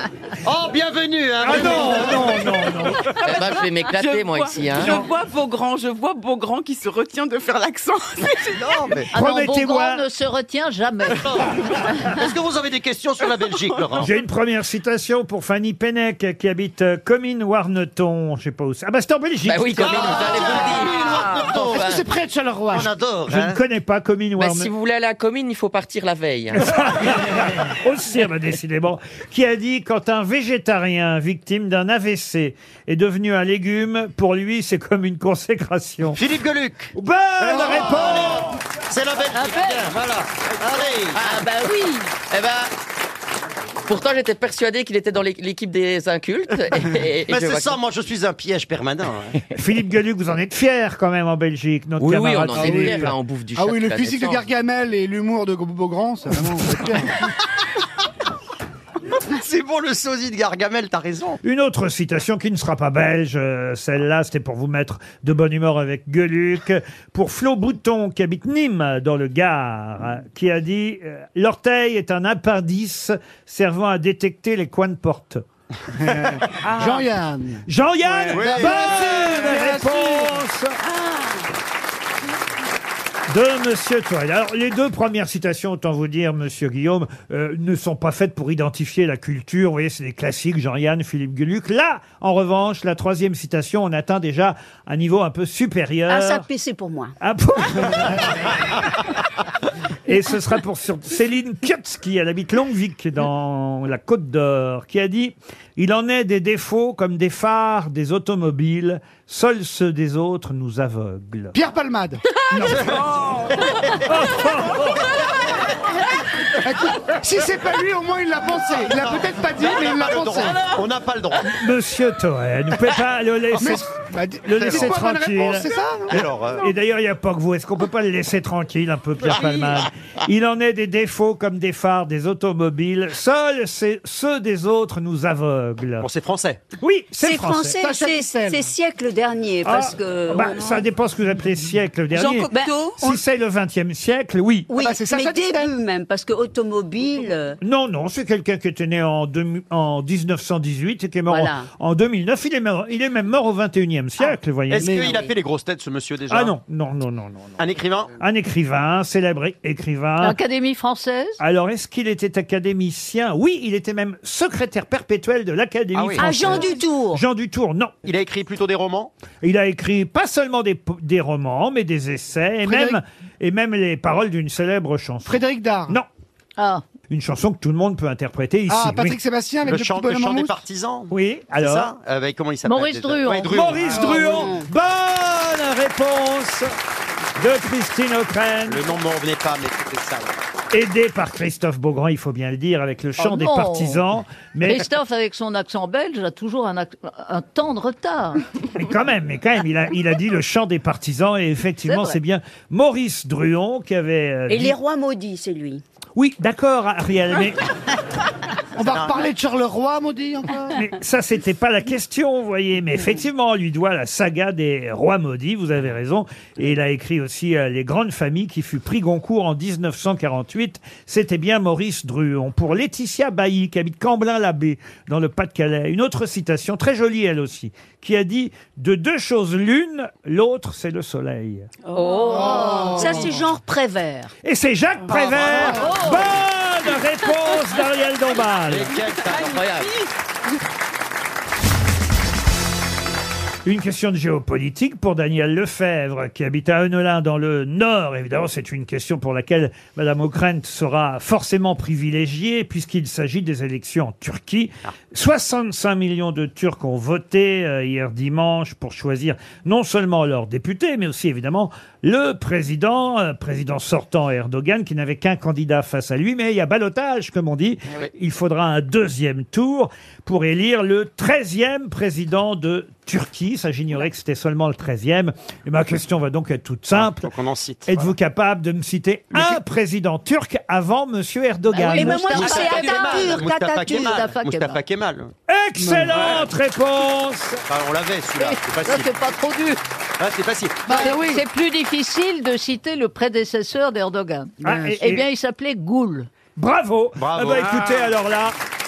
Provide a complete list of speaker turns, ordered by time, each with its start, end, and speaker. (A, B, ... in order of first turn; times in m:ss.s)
0:00.4-0:02.5 A
0:01.4-0:03.1 B
0:02.8-0:08.8 C
0:03.2-0:05.0 D
0:08.6-0:09.1 A
0:09.1-0:10.0 B
0:09.1-0:11.3 E
0:11.2-0:14.1 A
0:13.2-0:13.8 C
0:14.0-0:20.3 B
0:19.5-0:22.0 D
0:19.8-0:22.0 A
0:21.7-0:22.9 F
0:22.7-0:23.6 A
0:23.3-0:24.7 B
0:24.4-0:26.8 D
0:26.6-0:36.2 B
0:36.2-0:41.3 A
0:37.0-0:38.5 B
0:39.4-0:39.8 E
0:41.1-0:42.7 D
0:43.9-0:47.8 D
0:47.3-0:49.4 A
0:49.5-0:53.1 B
0:52.0-0:54.4 D
0:52.6-0:57.2 F
0:59.1-1:01.4 A
1:01.4-1:15.4 B
1:15.9-1:20.4 F
1:16.6-1:17.1 C
1:17.7-1:20.8 B
1:18.3-1:19.2 A
1:23.3-1:36.5 B
1:36.1-1:37.2 G
1:37.2-1:38.3 B
1:40.1-1:51.5 B
1:51.5-1:52.2 F
1:52.5-1:53.4 B
1:52.7-1:54.0 A
1:54.0-1:55.1 B
1:56.6-2:00.6 F
1:58.9-2:01.6 A
2:01.5-2:03.9 B
2:03.5-2:06.2 F
2:04.4-2:05.7 B
2:04.6-2:04.9 A
2:06.1-2:06.7 A
2:06.6-2:16.1 B
2:16.0-2:16.6 A
2:16.8-2:17.8 B
2:17.2-2:20.8 G
2:17.8-2:18.7 F
2:19.6-2:24.7 B
2:22.1-2:23.0 C
2:22.4-2:23.2 G
2:24.7-2:27.6 G
2:24.7-2:25.8 F
2:27.6-2:35.0 B
2:31.3-2:31.7 G
2:34.7-2:36.6 A
2:34.7-2:35.2 F
2:36.3-2:37.6 B
2:37.6-2:38.2 A
2:38.2-2:40.4 B
2:40.2-2:41.4 E
2:41.4-2:47.9 B
2:45.9-2:46.6 A
2:46.2-2:47.2 G
2:48.0-2:49.1 A
2:49.4-2:56.1 B
2:52.6-2:53.0 F
2:55.3-2:56.0 F
2:56.6-2:56.8 E
2:57.1-2:59.2 B
2:58.7-3:00.6 F
2:59.7-3:04.5 A
3:01.1-3:01.9 B
3:02.7-3:04.4 E
3:03.5-3:06.7 B
3:04.2-3:04.7 G
3:07.4-3:08.9 B
3:08.7-3:10.4 A
3:10.7-3:14.8 B
3:13.2-3:14.0 E
3:14.6-3:18.4 E
3:18.7-3:24.8 B
3:21.9-3:22.2 E
3:24.5-3:25.8 G
3:26.2-3:27.7 B
3:28.8-3:30.8 F
3:28.8-3:29.3 A
3:30.7-3:51.7 B
3:51.8-3:53.3 C
3:52.0-3:53.3 E
3:52.0-3:54.3 G
3:52.3-3:53.3 F
3:54.4-3:59.0 B
3:55.0-3:56.0 C
3:55.4-3:55.8 A
3:55.8-3:56.3 E
3:58.6-3:59.6 A
3:59.2-4:00.1 C
3:59.3-3:59.9 D
4:03.6-4:37.3 B
4:36.9-4:38.1 A
4:37.9-4:42.6 B
4:41.7-4:44.8 E
4:41.9-4:44.1 G
4:42.2-4:45.3 A
4:45.5-4:47.6 B
4:45.8-4:46.4 F
4:47.7-4:49.1 A
4:48.4-4:49.8 E
4:50.2-4:51.1 A
4:50.9-4:51.4 F
4:50.9-4:56.3 E
4:54.6-4:55.0 F
4:54.6-4:55.3 B
4:56.6-4:58.6 B
4:57.2-4:58.1 A